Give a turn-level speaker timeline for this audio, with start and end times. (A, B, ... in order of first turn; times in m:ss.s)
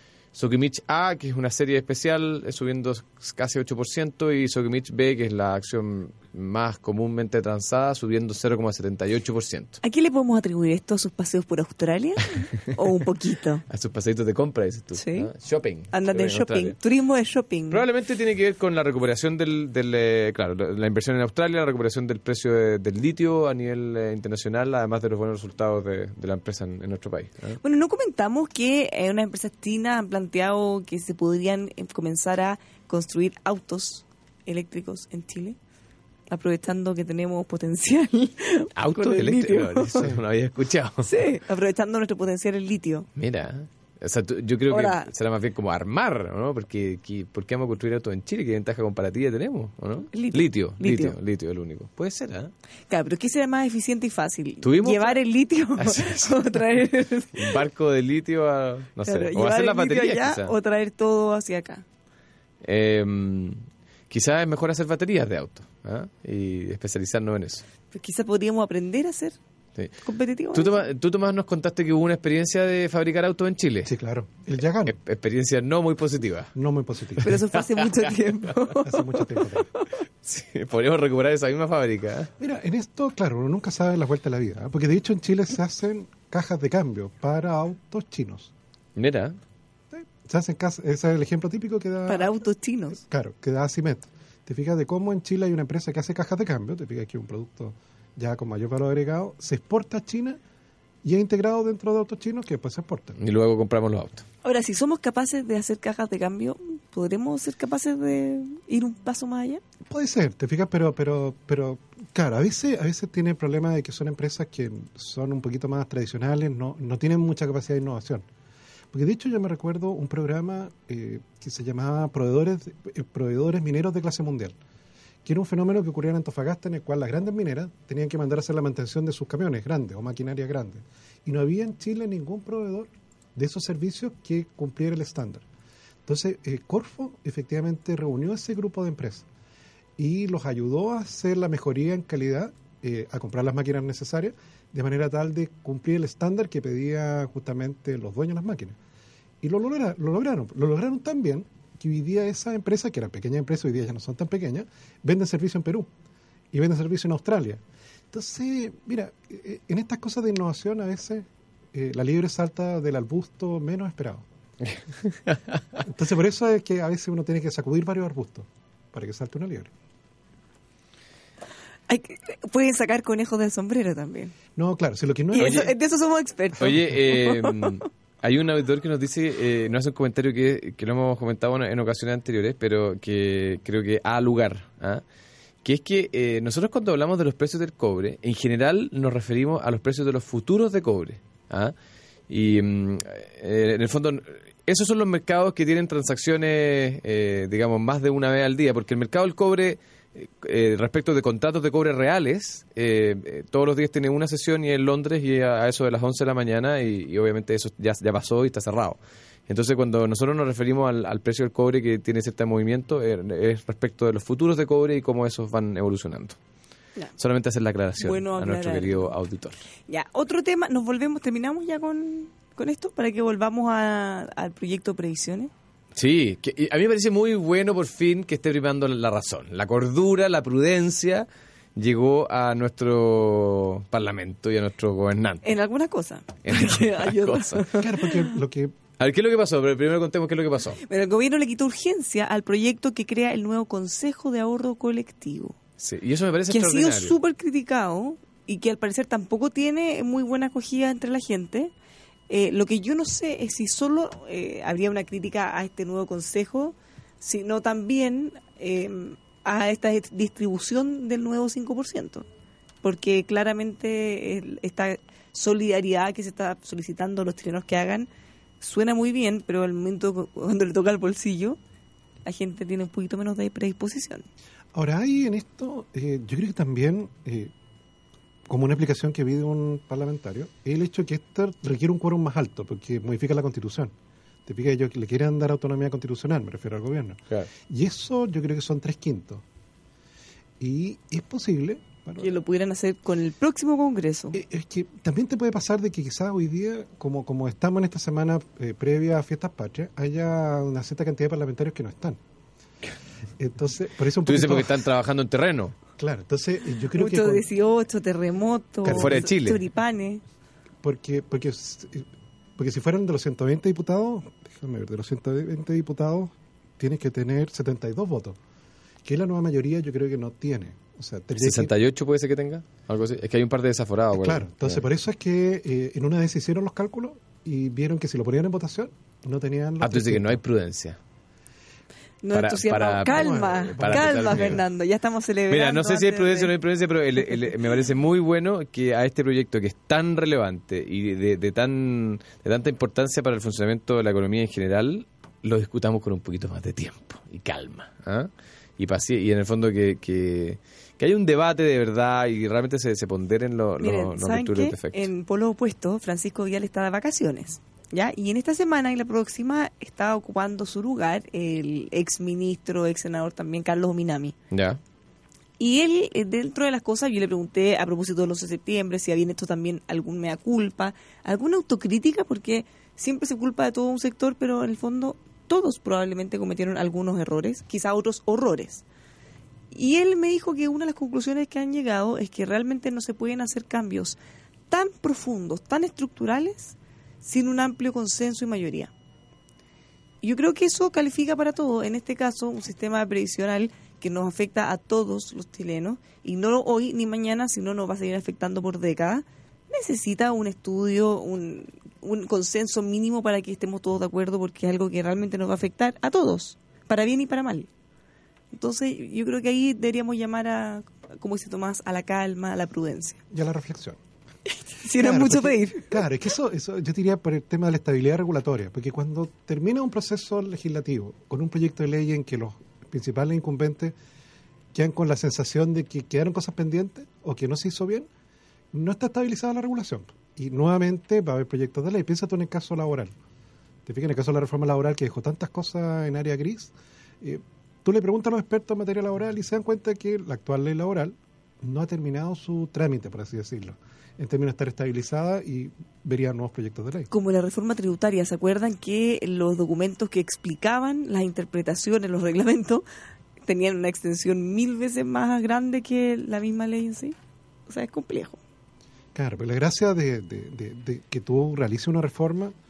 0:00.3-0:09.8 A
0:09.8-0:13.6 B
0:13.7-0:16.8 A
0:14.9-0:15.3 B
0:15.9-0:17.8 B
0:17.7-0:27.6 A
0:27.6-0:35.6 B
0:36.3-0:40.1 B
0:38.8-0:41.1 A
0:39.9-0:40.2 C
0:41.0-0:43.1 B
0:43.2-0:52.5 A
0:44.7-0:45.1 B
0:50.1-0:51.1 B
0:52.9-0:57.6 B
0:54.6-0:55.2 A
0:55.8-0:56.4 A
0:57.3-1:00.5 A
0:59.0-1:01.8 B
1:02.6-1:07.6 A
1:07.9-1:09.4 B
1:10.0-1:10.9 B
1:10.5-1:13.9 A
1:13.8-1:15.0 C
1:14.8-1:16.5 A
1:16.5-1:17.4 C
1:17.2-1:19.9 B
1:17.2-1:18.1 A
1:18.8-1:19.7 C
1:20.2-1:22.3 A
1:22.4-1:28.5 C
1:29.0-1:29.4 A
1:29.9-1:32.3 C
1:32.1-1:33.0 B
1:33.0-1:40.4 C
1:41.0-1:43.2 C
1:43.2-1:44.2 A
1:44.4-1:49.6 B
1:49.9-1:58.2 C
1:58.9-2:04.6 C
2:05.2-2:15.4 C
2:16.0-2:19.2 C
2:20.0-2:28.8 C
2:29.4-2:35.9 C
2:36.5-2:44.2 C
2:44.7-2:45.6 A
2:45.8-2:49.7 C
2:51.9-2:54.3 B
2:54.6-2:55.7 C
2:55.3-2:57.8 B
2:55.4-2:55.7 A
2:56.6-3:05.0 A
3:05.6-3:11.7 A
3:12.3-3:36.4 A
3:37.2-3:39.6 A
3:38.0-3:39.1 B
3:39.9-3:45.5 B
3:46.0-3:55.5 A
3:55.4-3:58.3 B
3:56.4-3:57.6 A
3:57.8-3:58.7 C
3:59.0-4:00.8 A
4:00.8-4:05.6 B
4:05.8-4:07.1 A
4:06.5-4:11.7 B
4:12.3-4:22.3 B
4:22.8-4:28.1 B
4:28.6-4:31.6 B
4:32.2-4:34.2 B
4:34.7-4:37.5 C
4:38.5-4:43.9 C
4:44.4-4:49.4 C
4:50.6-4:52.3 C
4:52.2-4:54.4 B
4:54.3-5:02.2 C
5:03.4-5:04.8 C
5:04.2-5:05.8 A
5:05.9-5:07.4 C
5:06.9-5:10.2 B
5:08.8-5:09.3 C
5:08.9-5:09.6 A
5:10.8-5:18.4 C
5:19.0-5:21.7 C
5:21.4-5:24.8 A
5:24.1-5:30.4 C
5:29.8-5:31.0 A
5:32.2-5:36.5 B
5:32.3-5:34.6 A
5:33.0-5:34.6 C
5:35.5-5:55.0 A
5:53.8-6:04.4 B
6:04.5-6:04.8 A
6:05.6-6:18.8 B
6:19.7-6:24.2 B
6:24.7-6:28.9 B
6:30.2-6:47.7 B
6:48.5-6:53.2 B
6:53.3-6:54.0 C
6:54.5-6:56.1 B
6:54.9-7:03.9 C
7:04.7-7:08.1 C
7:08.7-7:13.1 C
7:13.8-7:27.1 C
7:27.1-7:32.8 B
7:33.4-7:37.1 B
7:37.7-7:38.4 B
7:39.1-7:42.5 C